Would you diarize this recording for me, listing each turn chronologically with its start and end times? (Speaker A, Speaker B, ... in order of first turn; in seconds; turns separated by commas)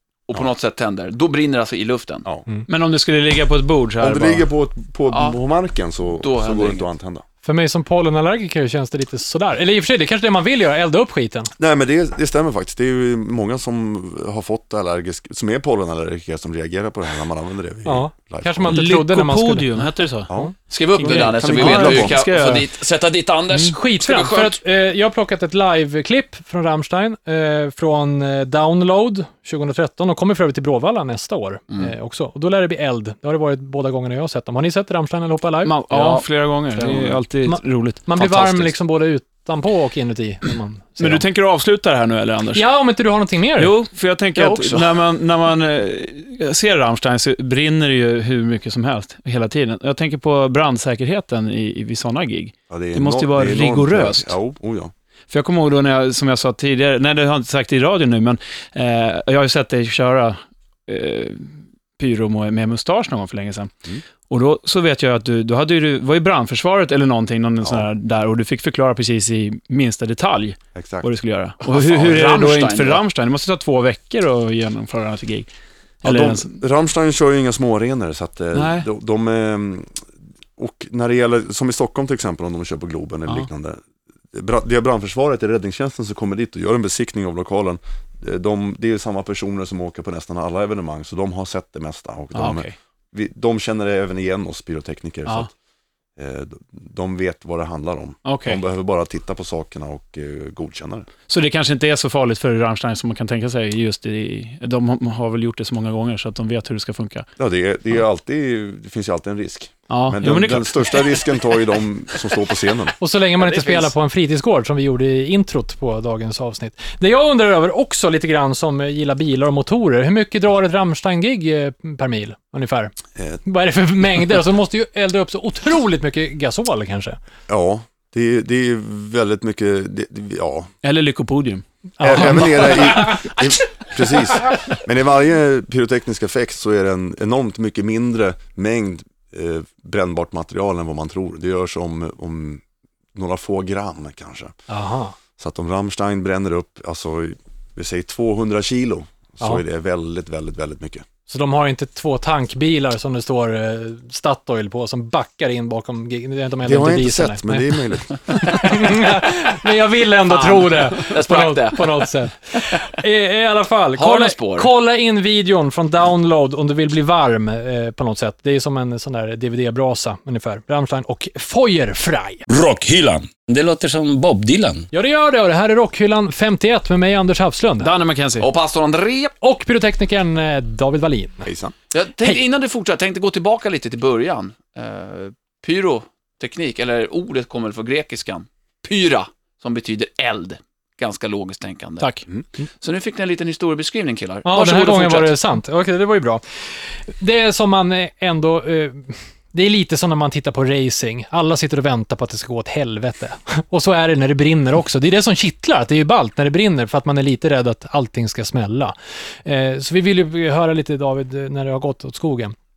Speaker A: 0.3-2.2, Speaker B: 2.7-4.4, Speaker C: 4.0-7.2, Speaker A: 5.1-5.4, Speaker A: 6.2-6.9, Speaker D: 7.4-11.5, Speaker C: 11.6-18.9, Speaker D: 17.8-20.5, Speaker B: 18.6-20.3, Speaker C: 20.3-22.2, Speaker A: 20.7-24.6, Speaker B: 21.0-22.7, Speaker D: 23.7-36.1, Speaker B: 35.6-38.7, Speaker A: 35.9-36.2, Speaker D: 36.8-41.2, Speaker A: 36.8-37.2, Speaker B: 41.0-42.6, Speaker D: 42.5-43.7, Speaker B: 43.6-54.3, Speaker A: 44.3-45.0, Speaker C: 52.7-54.9, Speaker B: 55.3-63.7, Speaker B: 64.3-75.5, Speaker C: 67.6-67.9, Speaker C: 70.7-71.1, Speaker A: 71.6-73.0, Speaker B: 76.0-76.5, Speaker C: 76.0-83.8, Speaker B: 78.5-78.9, Speaker C: 84.3-95.5, Speaker B: 92.3-92.7, Speaker C: 96.2-101.1, Speaker B: 98.2-98.6, Speaker B: 101.3-107.3, Speaker C: 107.4-112.9, Speaker B: 109.9-111.4, Speaker D: 113.0-127.2, Speaker A: 113.5-113.8, Speaker C: 123.2-123.4, Speaker C: 127.5-130.7, Speaker B: 130.8-133.1, Speaker D: 132.0-132.8, Speaker C: 132.0-142.6, Speaker C: 143.1-144.5, Speaker D: 144.7-145.2, Speaker C: 145.4-151.1, Speaker D: 151.3-157.8, Speaker C: 156.6-158.5, Speaker D: 158.3-172.4, Speaker A: 160.3-162.1, Speaker A: 164.0-164.7, Speaker E: 172.5-174.9, Speaker D: 174.9-177.9, Speaker B: 177.8-178.5, Speaker A: 178.4-179.3, Speaker D: 179.4-181.5, Speaker C: 181.4-181.7, Speaker A: 181.9-192.2, Speaker B: 192.0-192.2, Speaker A: 192.8-195.3, Speaker D: 194.4-212.5